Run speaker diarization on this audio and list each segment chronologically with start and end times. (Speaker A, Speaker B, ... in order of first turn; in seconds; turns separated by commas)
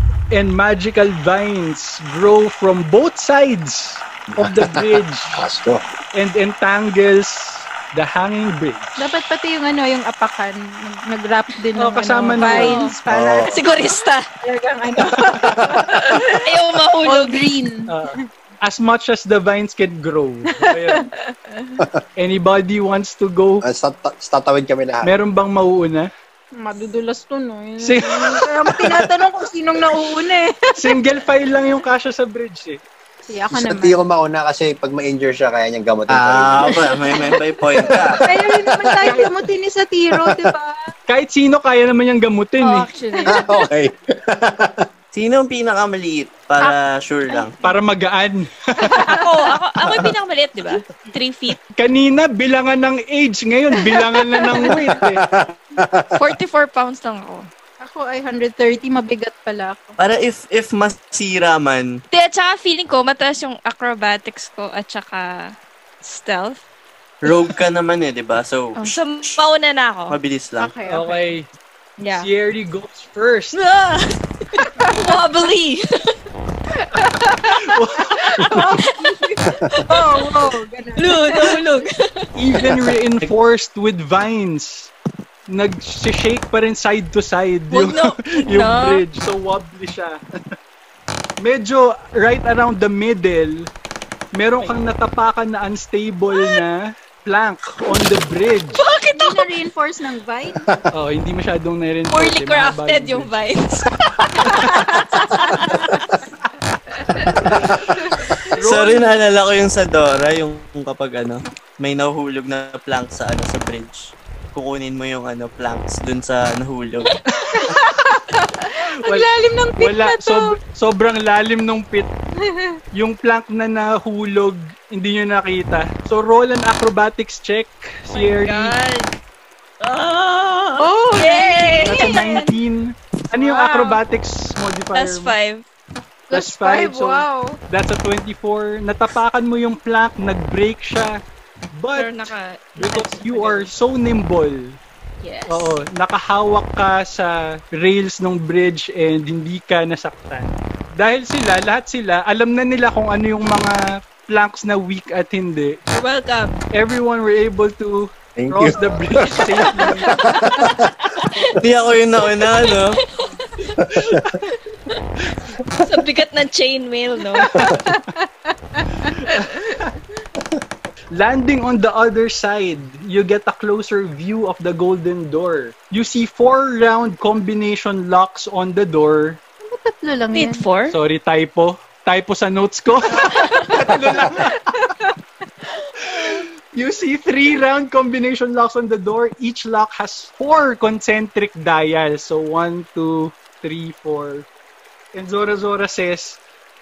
Speaker A: 0.3-5.4, Speaker B: 4.4-5.8, Speaker A: 6.1-9.0, Speaker C: 9.0-13.7, Speaker A: 11.8-12.8, Speaker D: 12.4-12.9, Speaker B: 13.1-13.6, Speaker D: 13.5-14.3, Speaker C: 14.4-16.5, Speaker B: 15.4-15.8, Speaker D: 16.0-17.5, Speaker C: 17.0-18.2, Speaker A: 17.9-21.1, Speaker C: 20.5-21.8, Speaker A: 22.2-23.6, Speaker B: 23.6-25.1, Speaker A: 25.0-26.1, Speaker C: 26.6-31.0, Speaker A: 27.8-29.1, Speaker A: 30.8-32.8, Speaker C: 33.3-34.0, Speaker B: 33.5-36.9, Speaker E: 36.1-38.2, Speaker C: 36.8-40.9, Speaker B: 37.8-39.4, Speaker B: 40.1-40.5, Speaker A: 41.1-42.9, Speaker D: 42.6-43.5, Speaker C: 43.1-43.6, Speaker B: 43.2-44.8, Speaker E: 45.1-47.6, Speaker A: 47.6-49.1, Speaker C: 48.8-49.3, Speaker D: 49.1-51.6, Speaker B: 49.9-50.1, Speaker A: 51.8-55.2, Speaker C: 53.9-54.7, Speaker B: 54.8-56.3, Speaker D: 56.1-57.5, Speaker C: 57.8-60.0, Speaker E: 60.0-62.0, Speaker D: 62.1-66.6, Speaker E: 67.2-69.4, Speaker D: 68.8-70.2, Speaker E: 70.1-70.7, Speaker C: 70.6-71.3, Speaker A: 70.9-71.5, Speaker D: 72.0-72.3, Speaker A: 72.1-73.6, Speaker D: 73.5-76.2, Speaker C: 77.0-77.5, Speaker A: 77.4-78.6, Speaker C: 78.2-81.6, Speaker D: 78.3-79.1, Speaker D: 79.6-82.3, Speaker A: 82.3-84.9, Speaker A: 85.5-90.2, Speaker D: 87.7-89.0, Speaker A: 91.4-93.7, Speaker A: 94.3-98.8, Speaker D: 98.8-99.5, Speaker C: 99.1-100.8, Speaker A: 100.9-103.3, Speaker D: 102.1-106.0, Speaker A: 104.4-105.0, Speaker D: 107.1-107.5, Speaker A: 107.5-107.8, Speaker E: 108.4-117.2, Speaker A: 108.5-109.1, Speaker A: 117.5-117.8, Speaker C: 117.5-120.5, Speaker A: 119.0-122.1, Speaker C: 122.4-122.8, Speaker A: 122.9-128.7, Speaker D: 128.1-129.2, Speaker D: 129.8-132.5, Speaker C: 130.8-132.5, Speaker A: 131.8-135.3, Speaker D: 133.4-134.0, Speaker D: 134.9-135.6, Speaker C: 136.3-137.6, Speaker A: 136.3-141.2, Speaker A: 141.7-144.8, Speaker D: 141.9-143.7, Speaker D: 145.2-145.8, Speaker A: 145.5-155.8, Speaker D: 155.9-156.6, Speaker A: 156.7-160.2, Speaker B: 158.3-161.0, Speaker D: 159.4-161.5, Speaker E: 161.6-163.0, Speaker D: 162.2-163.8, Speaker B: 163.8-164.2, Speaker A: 163.8-164.4, Speaker D: 164.7-165.0, Speaker D: 165.7-167.7, Speaker C: 167.4-169.4, Speaker A: 169.1-169.9, Speaker A: 171.1-179.4, Speaker C: 179.6-180.6, Speaker D: 180.3-180.9, Speaker A: 180.9-184.6, Speaker C: 183.1-185.1, Speaker A: 186.0-194.5, Speaker A: 195.1-196.4